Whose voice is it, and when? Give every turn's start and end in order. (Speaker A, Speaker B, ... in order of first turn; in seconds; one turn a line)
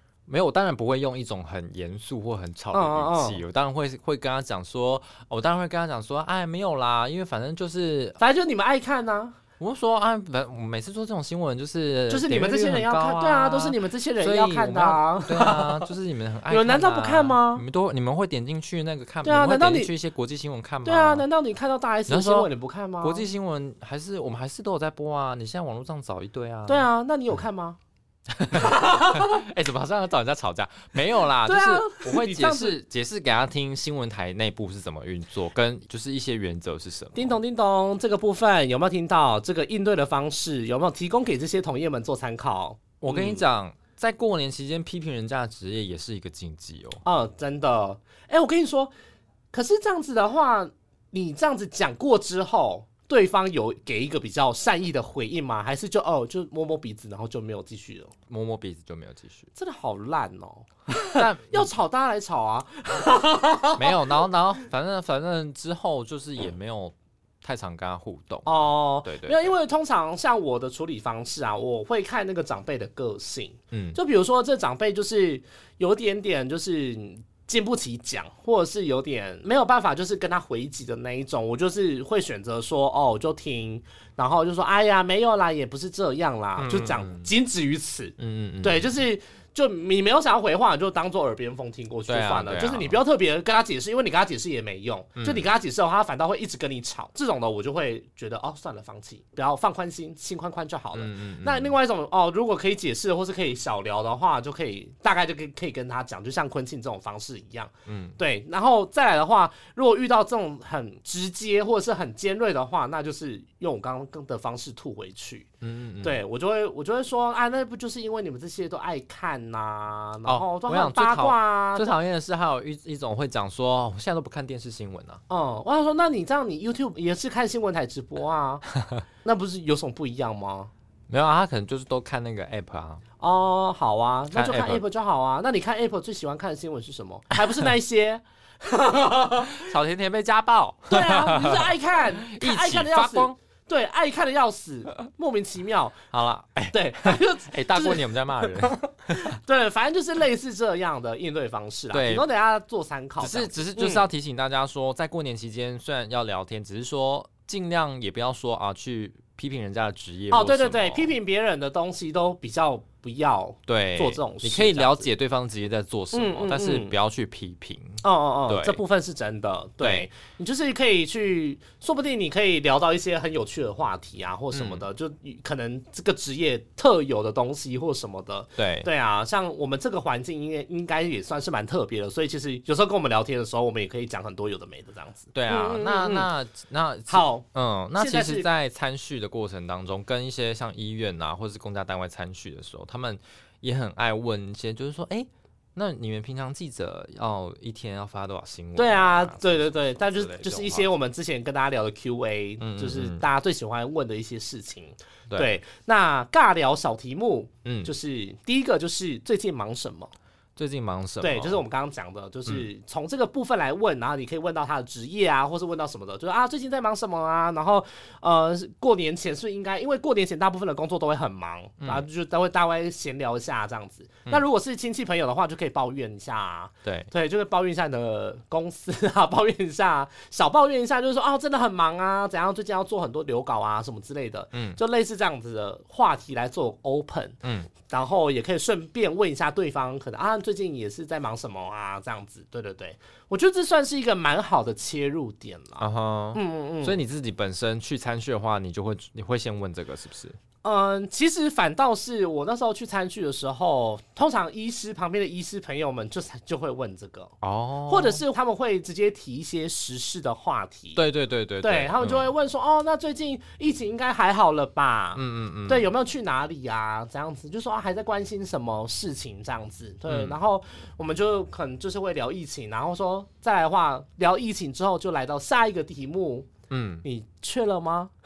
Speaker A: 0.3-8.2
Speaker B: 2.7-3.4
Speaker B: 8.2-9.4
Speaker A: 9.6-21.2
Speaker B: 12.1-15.9
Speaker B: 16.5-17.6
Speaker B: 19.2-19.9
Speaker B: 20.8-23.2
Speaker A: 22.1-22.5
Speaker A: 23.0-26.9
Speaker B: 26.7-27.8
Speaker A: 28.3-37.3
Speaker B: 28.5-29.4
Speaker B: 31.4-32.8
Speaker B: 37.1-43.4
Speaker A: 43.0-47.0
Speaker B: 47.0-48.9
Speaker B: 49.5-58.1
Speaker A: 58.3-59.5
Speaker B: 59.5-64.1
Speaker A: 61.0-61.7
Speaker A: 63.8-69.4
Speaker B: 68.5-115.5
Speaker A: 73.7-74.0
Speaker A: 86.6-87.3
Speaker A: 88.2-88.9
Speaker A: 92.1-93.0
Speaker A: 95.2-95.5
Speaker A: 100.9-101.8
Speaker A: 107.9-108.2
Speaker A: 115.6-116.2
Speaker B: 116.0-122.0
Speaker A: 120.2-125.2
Speaker B: 125.3-128.6
Speaker B: 129.2-130.7
Speaker A: 131.1-133.0
Speaker B: 133.2-139.7
Speaker A: 134.3-134.8
Speaker A: 139.5-143.3
Speaker B: 140.9-146.0
Speaker A: 146.1-149.4
Speaker B: 146.7-154.1
Speaker A: 151.9-152.2
Speaker A: 153.2-161.1
Speaker B: 160.3-165.1
Speaker A: 163.7-168.8
Speaker B: 166.1-166.9
Speaker B: 168.0-186.3
Speaker A: 169.8-170.1
Speaker A: 174.5-174.8
Speaker A: 178.6-178.9
Speaker A: 185.3-200.9
Speaker B: 187.1-187.4
Speaker B: 188.0-188.5
Speaker B: 198.8-210.1
Speaker A: 202.6-203.2
Speaker A: 207.6-207.9
Speaker A: 210.6-211.6
Speaker B: 211.2-247.0
Speaker A: 226.8-227.1
Speaker A: 234.5-234.8
Speaker A: 237.4-237.7
Speaker A: 245.8-250.4
Speaker B: 250.6-257.3
Speaker A: 257.4-258.2
Speaker B: 257.9-261.0
Speaker A: 260.9-262.3
Speaker B: 261.6-276.5
Speaker A: 265.1-265.9
Speaker A: 270.1-270.4
Speaker A: 276.7-277.0
Speaker B: 277.0-278.1